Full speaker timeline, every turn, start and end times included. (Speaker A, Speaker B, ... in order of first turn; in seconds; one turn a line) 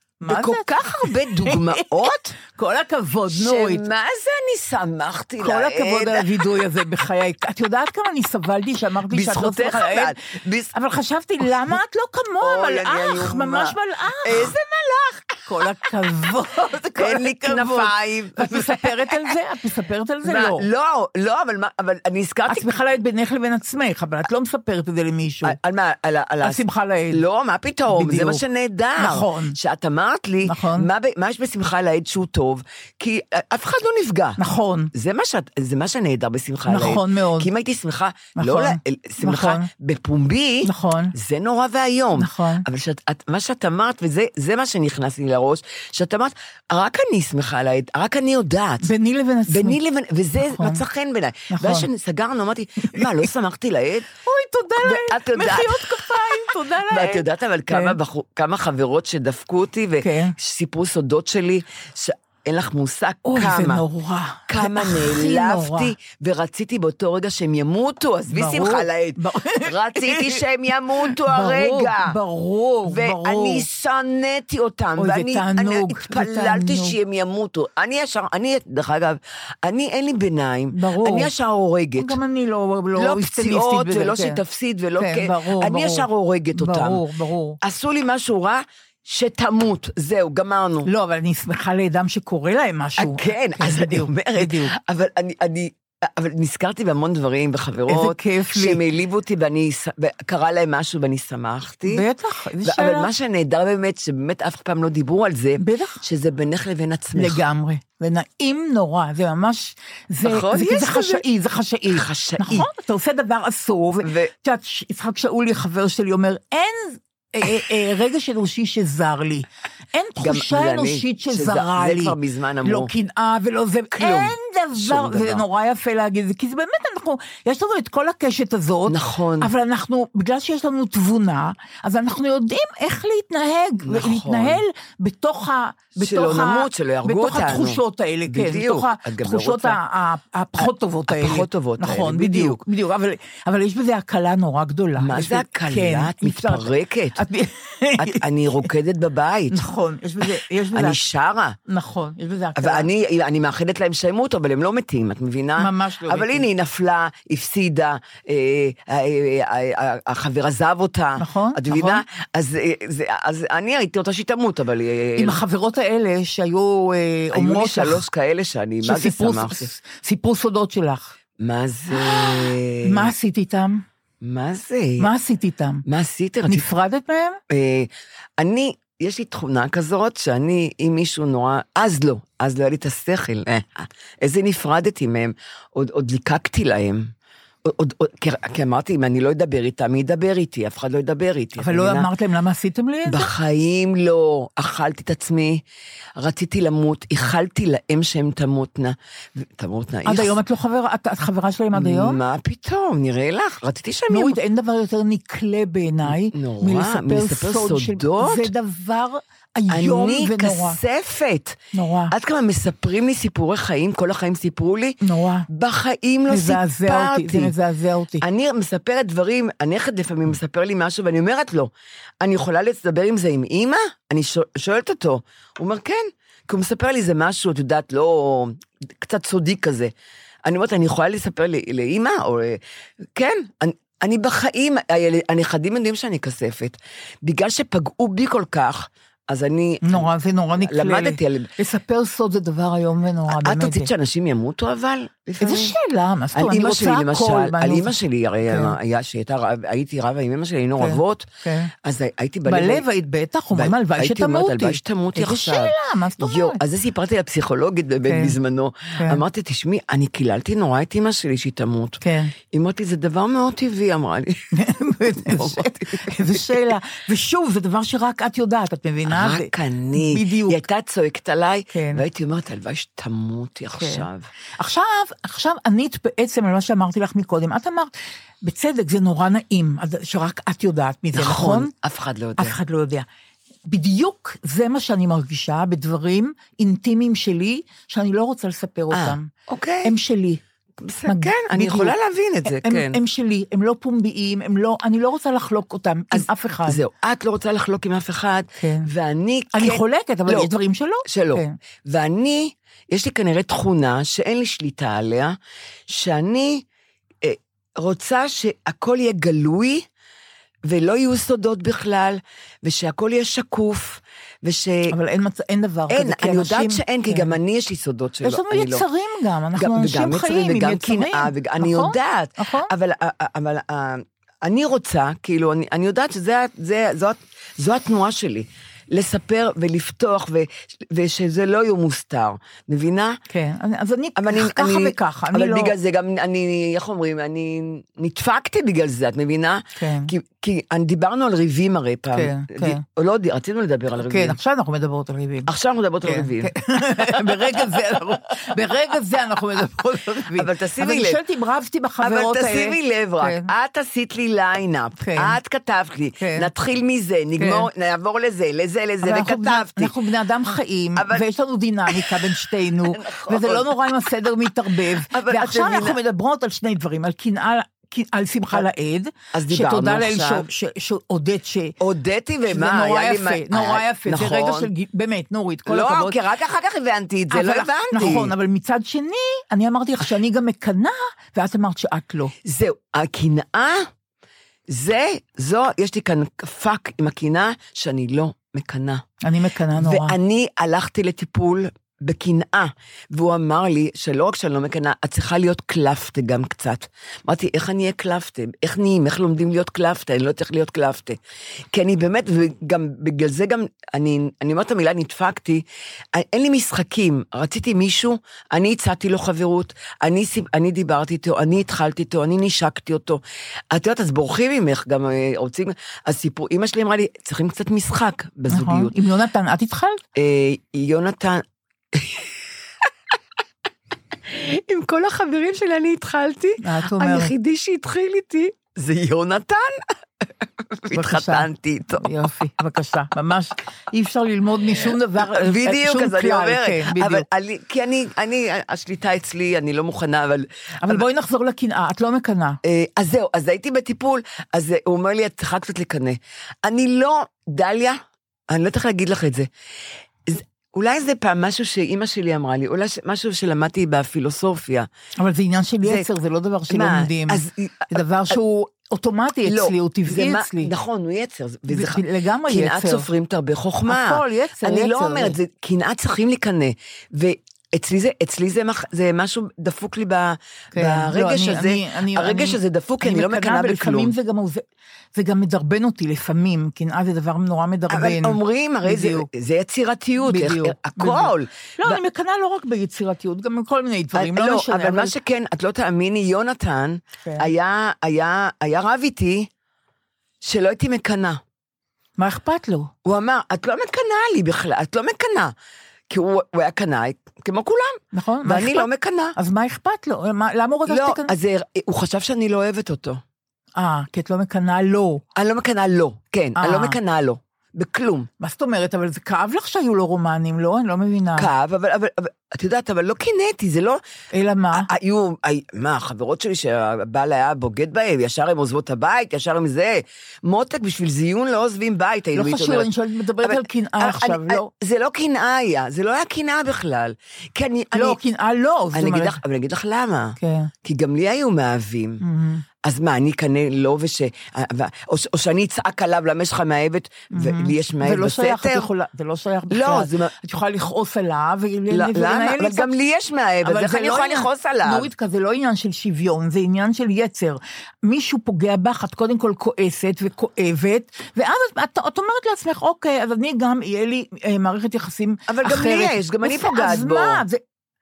Speaker A: 0.2-3.9
Speaker B: 0.3-2.3
Speaker B: 3.3-6.5
Speaker A: 5.4-10.2
Speaker B: 9.1-10.7
Speaker A: 10.7-14.5
Speaker B: 12.4-15.5
Speaker A: 15.5-20.7
Speaker B: 17.0-19.2
Speaker B: 20.2-22.7
Speaker A: 22.5-25.6
Speaker B: 25.4-34.4
Speaker A: 26.4-27.2
Speaker A: 27.9-28.4
Speaker A: 29.0-29.6
Speaker A: 30.4-30.9
Speaker A: 34.4-34.9
Speaker B: 34.9-48.9
Speaker A: 36.7-37.5
Speaker A: 38.4-39.7
Speaker A: 40.6-41.1
Speaker A: 42.2-42.6
Speaker A: 48.8-49.8
Speaker B: 49.5-54.1
Speaker A: 50.4-50.8
Speaker A: 51.5-51.9
Speaker A: 52.8-53.2
Speaker A: 54.2-58.0
Speaker B: 54.8-63.8
Speaker A: 60.0-60.4
Speaker A: 63.2-65.9
Speaker B: 64.5-72.2
Speaker A: 68.3-70.4
Speaker A: 71.0-73.7
Speaker B: 72.9-82.2
Speaker A: 75.0-77.0
Speaker A: 80.7-81.3
Speaker A: 82.0-84.4
Speaker B: 83.0-87.0
Speaker A: 85.0-87.6
Speaker B: 87.6-90.9
Speaker A: 90.9-94.7
Speaker B: 93.0-102.0
Speaker A: 97.9-98.8
Speaker A: 101.8-103.1
Speaker B: 102.6-107.4
Speaker A: 105.6-106.0
Speaker A: 107.2-148.7
Speaker B: 110.2-111.2
Speaker B: 111.9-112.7
Speaker B: 114.0-114.3
Speaker B: 120.2-122.9
Speaker B: 123.9-125.4
Speaker B: 128.9-129.5
Speaker B: 133.9-134.6
Speaker B: 136.0-139.8
Speaker B: 140.6-142.6
Speaker B: 145.0-147.2
Speaker B: 148.0-149.6
Speaker A: 149.5-151.0
Speaker B: 150.8-151.6
Speaker A: 151.7-152.9
Speaker B: 152.6-165.4
Speaker A: 155.6-156.5
Speaker A: 161.2-162.0
Speaker A: 165.2-168.0
Speaker B: 167.3-169.7
Speaker A: 168.8-171.2
Speaker B: 171.4-173.1
Speaker A: 171.9-173.8
Speaker B: 174.2-175.1
Speaker A: 175.0-175.8
Speaker B: 175.9-176.7
Speaker A: 176.5-177.4
Speaker B: 177.5-187.1
Speaker B: 187.7-192.1
Speaker A: 191.6-193.3
Speaker B: 193.1-195.6
Speaker B: 196.2-200.4
Speaker A: 200.1-202.2
Speaker B: 201.7-204.4
Speaker A: 204.1-210.8
Speaker B: 206.1-208.5
Speaker B: 209.7-211.6
Speaker A: 211.7-212.1
Speaker B: 212.1-217.5
Speaker A: 215.0-215.5
Speaker A: 216.3-218.2
Speaker B: 218.2-229.9
Speaker B: 230.4-232.6
Speaker B: 233.2-241.5
Speaker A: 239.8-243.9
Speaker B: 243.3-245.8
Speaker A: 245.4-248.0
Speaker B: 246.3-251.3
Speaker A: 248.5-248.8
Speaker A: 250.8-251.7
Speaker B: 251.8-252.8
Speaker A: 252.4-256.6
Speaker B: 253.5-262.0
Speaker A: 258.1-258.4
Speaker A: 258.9-259.2
Speaker A: 262.0-262.3
Speaker B: 262.5-264.5
Speaker A: 264.5-270.6
Speaker B: 265.2-266.5
Speaker B: 269.1-274.3
Speaker A: 271.7-272.0
Speaker A: 273.8-274.1
Speaker A: 274.6-277.9
Speaker A: 278.4-281.7
Speaker B: 281.1-282.6
Speaker A: 282.4-283.1
Speaker A: 283.7-289.3
Speaker B: 288.9-289.9
Speaker A: 289.8-290.4
Speaker B: 290.8-293.0
Speaker A: 291.1-291.9
Speaker A: 292.5-296.8
Speaker B: 296.1-300.5
Speaker A: 298.6-298.9
Speaker A: 299.5-301.6
Speaker B: 301.1-305.4
Speaker B: 305.9-306.6
Speaker B: 307.2-309.9
Speaker B: 310.6-314.9
Speaker A: 314.9-317.3
Speaker B: 315.9-318.9
Speaker A: 318.2-322.7
Speaker B: 319.6-333.2
Speaker A: 333.3-335.7
Speaker B: 334.2-344.4
Speaker A: 339.8-340.1
Speaker A: 342.1-342.8
Speaker A: 344.0-345.5
Speaker B: 345.5-346.5
Speaker A: 346.1-353.5
Speaker B: 347.1-347.7
Speaker B: 350.4-351.2
Speaker B: 352.0-359.9
Speaker A: 355.0-355.4
Speaker A: 356.2-356.5
Speaker A: 357.4-357.7
Speaker A: 359.0-371.8
Speaker B: 361.0-361.2
Speaker B: 361.9-362.3
Speaker B: 362.9-363.9
Speaker B: 365.0-366.0
Speaker B: 369.3-370.5
Speaker B: 371.8-374.7
Speaker A: 372.5-376.2
Speaker B: 375.7-378.3
Speaker A: 377.3-382.4
Speaker B: 382.4-383.9
Speaker B: 384.7-389.0
Speaker A: 389.2-390.1
Speaker B: 389.8-401.2
Speaker B: 401.7-405.6
Speaker B: 406.1-419.0
Speaker A: 418.5-420.0
Speaker B: 420.2-421.4
Speaker B: 421.9-422.3
Speaker B: 424.3-429.8
Speaker A: 426.6-427.3
Speaker B: 430.8-432.1
Speaker A: 430.9-437.2
Speaker B: 435.2-441.1
Speaker A: 440.8-442.6
Speaker B: 442.6-449.5
Speaker B: 450.3-454.9
Speaker A: 455.2-460.7
Speaker B: 456.7-458.0
Speaker B: 459.5-474.1
Speaker A: 461.7-463.1
Speaker A: 463.9-465.4
Speaker A: 470.7-474.6
Speaker A: 475.1-479.3
Speaker B: 477.9-482.0
Speaker A: 480.2-485.1
Speaker B: 484.1-489.5
Speaker A: 487.2-487.5
Speaker B: 490.4-491.4
Speaker A: 492.2-492.9
Speaker B: 493.1-495.5
Speaker B: 496.1-499.4
Speaker A: 498.1-501.3
Speaker B: 500.9-503.2
Speaker A: 503.8-505.2
Speaker B: 505.4-508.3
Speaker A: 506.6-507.0
Speaker A: 508.4-511.5
Speaker B: 511.4-514.0
Speaker A: 514.3-514.9
Speaker B: 514.7-522.9
Speaker A: 522.4-524.7
Speaker B: 523.4-528.2
Speaker A: 527.9-529.4
Speaker B: 528.9-532.2
Speaker A: 530.4-530.7
Speaker A: 532.2-532.6
Speaker B: 532.8-538.9
Speaker A: 537.3-542.9
Speaker B: 539.7-540.4
Speaker B: 541.9-545.1
Speaker A: 543.6-557.6
Speaker B: 555.5-557.4